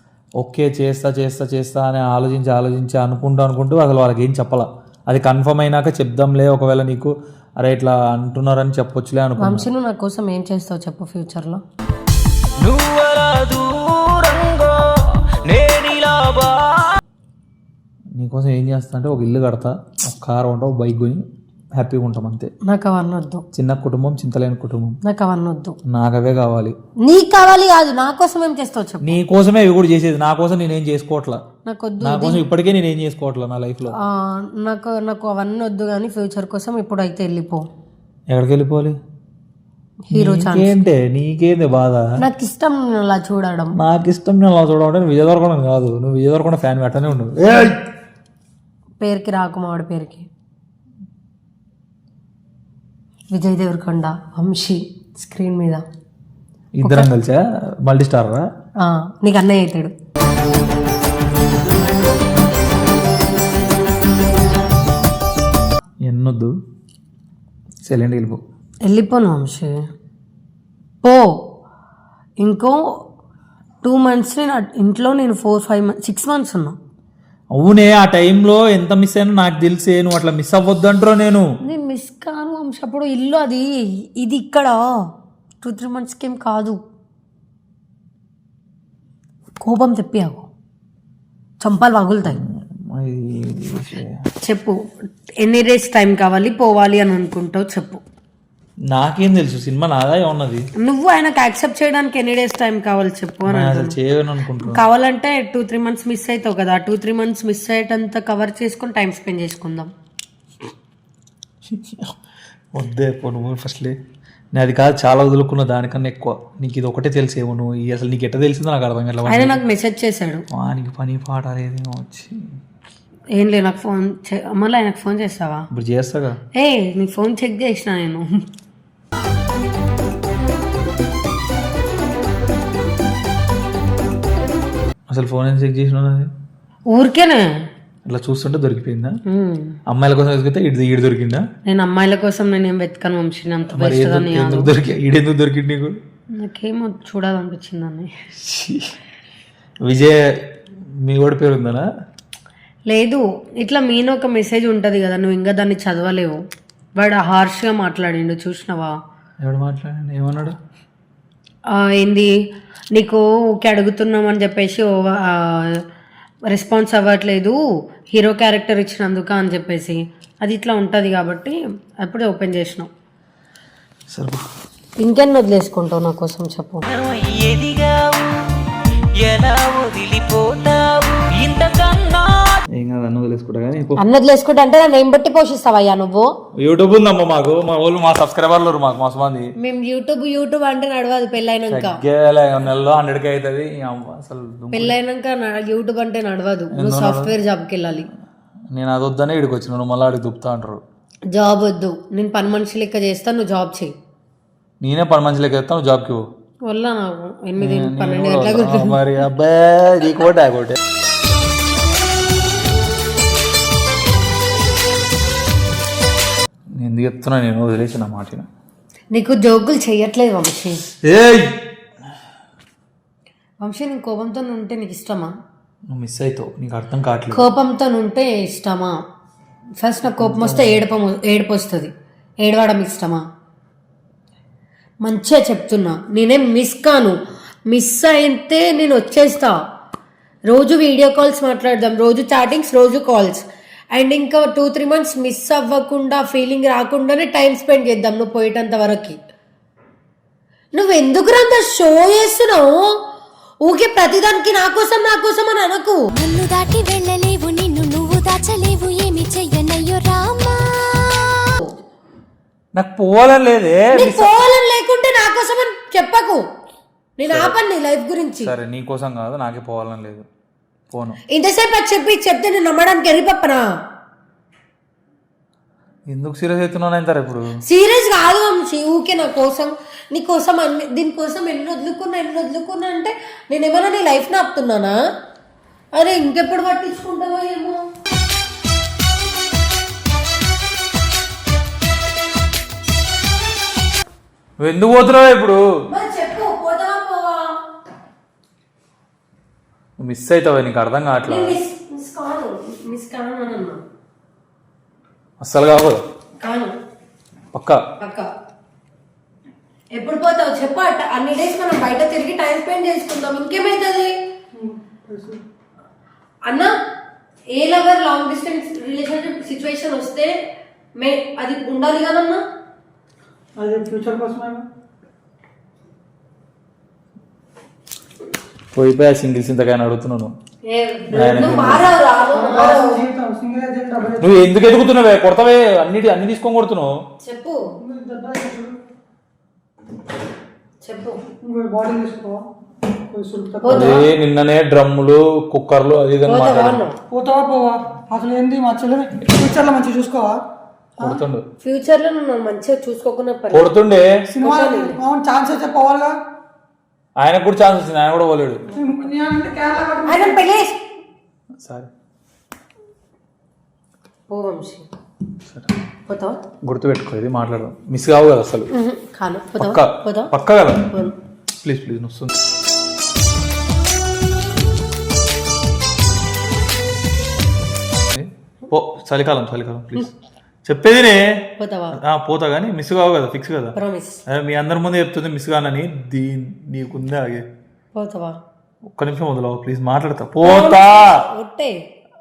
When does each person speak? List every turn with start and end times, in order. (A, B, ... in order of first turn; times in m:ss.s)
0:00.4-0:09.7 A
0:09.4-0:11.6 B
0:12.6-0:17.0 C
0:18.2-0:21.2 A
0:21.8-0:22.5 A
0:22.6-0:23.4 B
0:23.5-0:25.0 A
0:25.0-0:25.8 B
0:25.9-0:26.8 A
0:27.0-0:29.2 B
0:29.0-0:31.4 A
0:31.6-0:32.4 B
0:32.0-0:33.9 A
0:34.0-0:37.6 B
0:38.3-0:39.0 A
0:40.0-0:40.8 B
0:40.1-0:42.1 A
0:42.2-0:43.8 B
0:43.8-0:47.8 A
0:49.0-0:50.3 B
0:53.3-0:55.8 B
0:56.8-0:58.5 A
0:56.8-0:57.1 B
0:58.8-0:59.9 B
1:06.0-1:06.5 A
1:07.8-1:08.4 A
1:08.9-1:09.7 B
1:11.0-1:11.3 B
1:12.4-1:12.8 B
1:13.8-1:16.7 B
1:17.5-1:21.5 A
1:21.6-1:24.8 B
1:25.6-1:26.8 B
1:29.6-1:30.5 B
1:31.6-1:32.4 B
1:32.2-1:34.2 A
1:34.4-1:34.8 B
1:35.4-1:38.0 B
1:38.9-1:40.7 A
1:40.8-1:43.9 B
1:43.5-1:44.8 A
1:44.6-1:49.9 B
1:51.7-1:52.1 A
1:52.7-1:53.9 A
1:54.5-1:59.6 A
1:59.3-2:00.4 B
2:00.5-2:02.3 A
2:03.4-2:05.7 B
2:05.7-2:06.4 A
2:06.6-2:08.4 B
2:15.1-2:16.3 A
2:16.9-2:17.5 B
2:18.0-2:19.1 A
2:19.3-2:19.8 B
2:19.9-2:21.4 A
2:21.6-2:24.7 B
2:23.7-2:26.0 A
2:26.4-2:28.1 B
2:28.4-2:28.9 A
2:29.8-2:30.2 A
2:31.0-2:31.8 A
2:32.9-2:36.4 B
2:37.0-2:38.9 B
2:39.4-2:40.6 A
2:41.7-2:42.3 B
2:42.9-2:45.8 B
2:46.5-2:47.6 B
2:48.1-2:52.9 B
2:54.1-2:54.4 A
2:55.0-2:56.8 B
2:56.9-2:58.6 C
2:59.2-3:02.6 C
3:02.7-3:04.0 A
3:04.0-3:06.3 B
3:06.5-3:09.5 A
3:09.6-3:12.0 B
3:11.7-3:14.9 A
3:14.7-3:18.1 B
3:16.7-3:17.3 A
3:18.7-3:20.8 A
3:21.3-3:23.9 B
3:24.8-3:26.2 A
3:26.7-3:29.0 B
3:27.6-3:30.8 A
3:36.8-3:38.5 A
3:39.1-3:40.8 B
3:41.0-3:41.6 A
3:43.6-3:45.3 B
3:45.9-3:47.5 A
3:47.3-3:48.9 B
3:49.8-3:51.9 B
3:50.2-3:50.8 A
3:52.4-3:53.2 B
3:55.0-3:57.2 B
3:57.7-3:59.6 B
4:00.5-4:09.2 B
4:10.7-4:12.9 B
4:13.6-4:16.0 B
4:16.1-4:21.4 D
4:22.8-4:24.3 A
4:23.9-4:26.4 B
4:27.2-4:28.5 B
4:27.3-4:27.6 A
4:28.4-4:30.2 A
4:30.9-4:31.2 A
4:31.3-4:33.7 B
4:36.1-4:37.5 A
4:37.6-4:45.0 B
4:46.0-4:47.8 B
4:54.6-4:55.6 A
4:55.9-4:57.5 B
5:00.0-5:01.6 A
5:01.3-5:03.8 B
5:05.4-5:06.0 A
5:06.4-5:06.7 B
5:07.5-5:07.8 A
5:08.0-5:08.3 B
5:09.9-5:14.1 B
5:14.5-5:15.4 E
5:16.4-5:16.7 B
5:17.5-5:20.3 B
5:21.0-5:22.4 B
5:23.6-5:24.6 E
5:28.7-5:30.3 A
5:30.7-5:33.0 B
5:31.1-5:31.9 A
5:31.3-5:31.8 E
5:32.3-5:34.4 E
5:34.2-5:36.9 A
5:37.2-5:37.6 B
5:37.8-5:38.8 E
5:40.8-5:41.2 B
5:41.4-5:42.4 E
5:43.1-5:44.0 E
5:43.6-5:44.0 B
5:43.7-5:46.8 A
5:46.2-5:47.0 B
5:47.1-5:50.4 E
5:51.0-5:51.4 A
5:51.6-5:53.7 B
5:53.5-5:54.1 A
5:54.3-5:56.2 E
5:54.4-5:55.0 B
5:57.2-5:58.6 A
5:58.8-6:00.4 E
6:00.0-6:00.8 B
6:01.6-6:01.9 A
6:04.3-6:04.9 B
6:06.1-6:06.4 B
6:06.6-6:08.7 A
6:08.7-6:10.3 B
6:09.6-6:10.9 A
6:10.9-6:11.1 B
6:11.6-6:12.3 A
6:18.1-6:20.1 A
6:20.7-6:21.4 A
6:21.6-6:22.0 B
6:22.0-6:23.8 A
6:23.8-6:24.2 B
6:24.3-6:27.4 A
6:27.9-6:28.4 B
6:28.9-6:31.2 A
6:30.4-6:31.8 B